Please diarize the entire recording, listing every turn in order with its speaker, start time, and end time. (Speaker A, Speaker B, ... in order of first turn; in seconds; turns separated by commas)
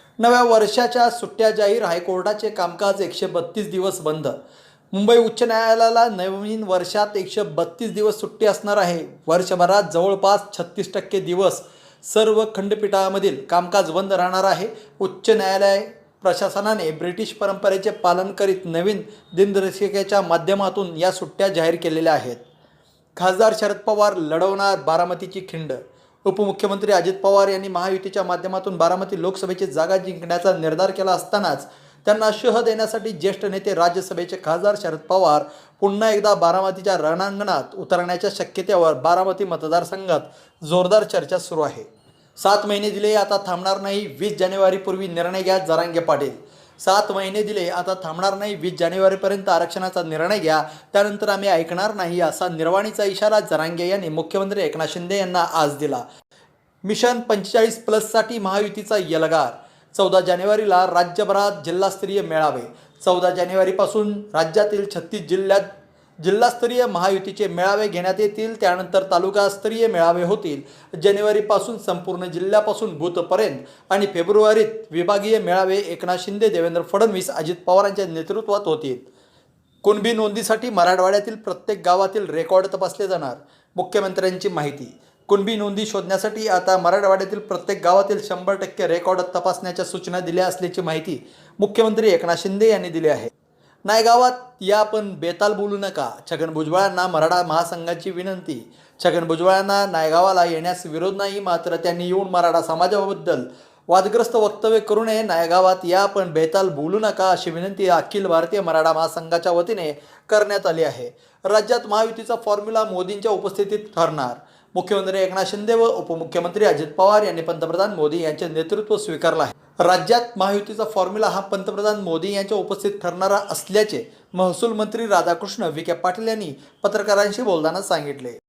Speaker A: 0.2-4.4, Speaker A: 4.9-22.4, Speaker A: 23.2-56.0, Speaker A: 56.9-65.7, Speaker A: 66.2-79.1, Speaker A: 79.8-93.3, Speaker A: 93.9-128.4